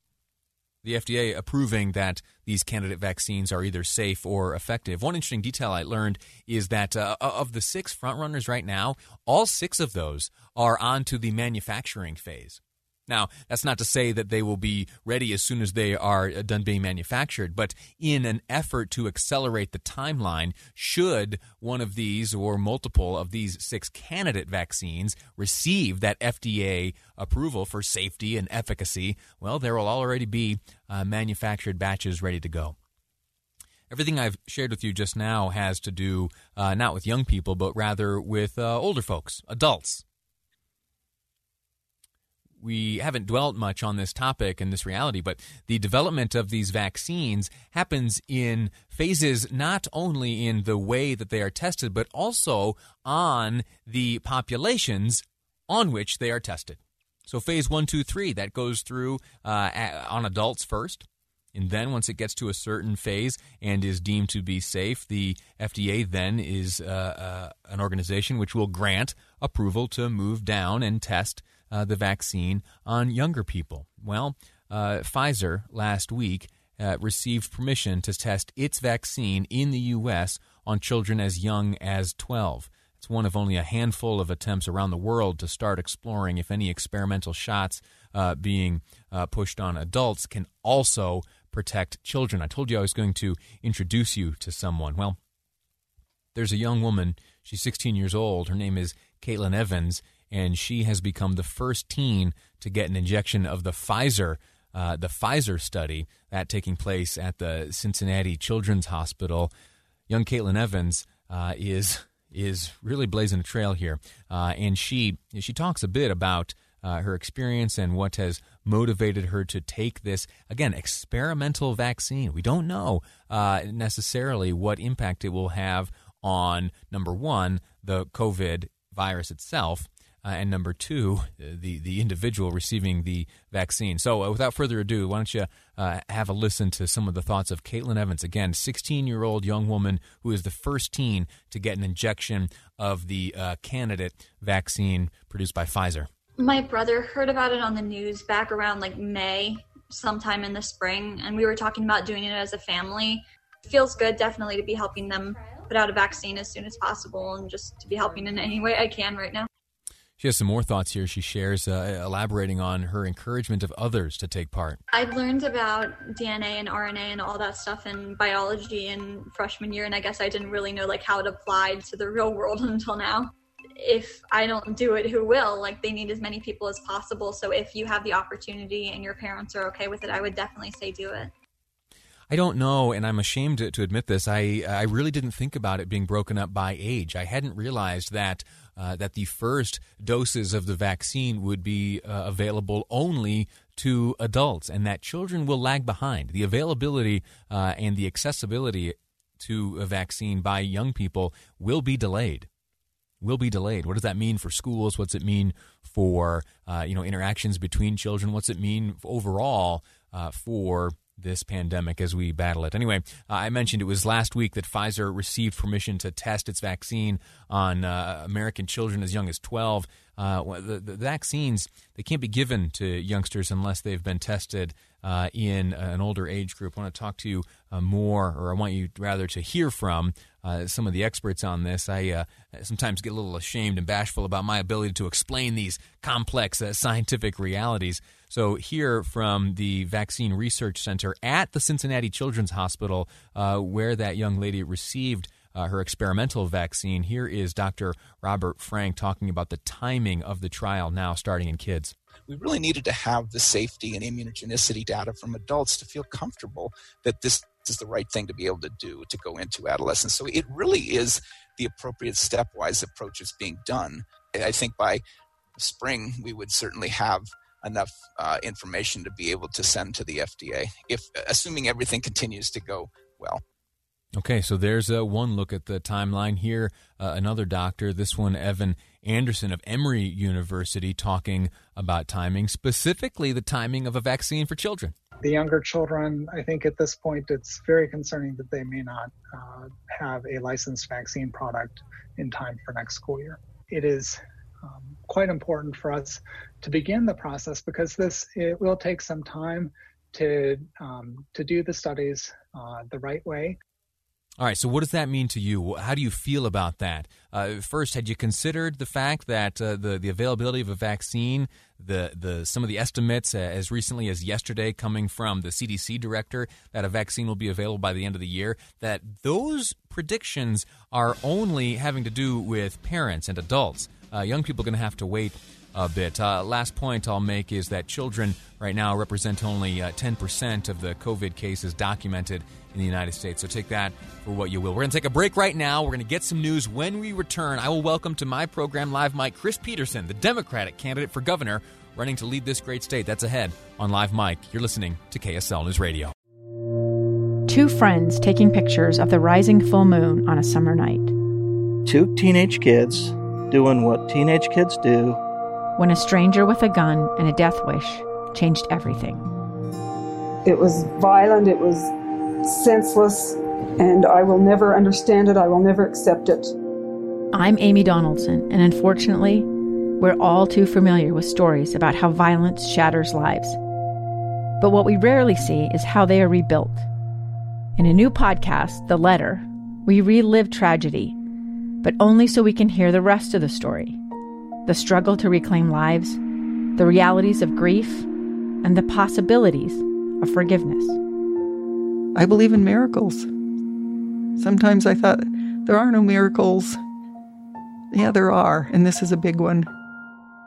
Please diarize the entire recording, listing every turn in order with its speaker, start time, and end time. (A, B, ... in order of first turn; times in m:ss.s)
0:00.8-0:32.8 A
0:33.9-0:40.0 A
0:42.6-1:35.2 A
1:36.3-1:49.5 A
1:50.1-2:26.1 A
2:26.4-2:39.5 B
2:40.2-2:44.8 A
2:44.9-3:01.3 B
3:02.3-3:22.5 A
3:23.2-4:11.9 A
4:12.3-4:25.0 C
4:25.6-4:33.4 C
4:34.2-4:44.9 A
4:45.2-5:03.6 D
5:04.4-5:46.1 A
5:47.5-5:51.1 E
5:51.8-5:55.2 F
5:55.8-5:59.2 E
6:00.4-6:06.5 G
6:07.3-6:09.5 E
6:10.0-6:13.6 E
6:14.6-6:16.9 E
6:17.8-6:21.2 E
6:21.8-6:24.0 E
6:24.6-6:26.2 E
6:26.8-6:28.1 E
6:28.6-6:31.0 E
6:32.2-6:33.2 H
6:34.4-6:36.8 H
6:37.9-6:39.7 H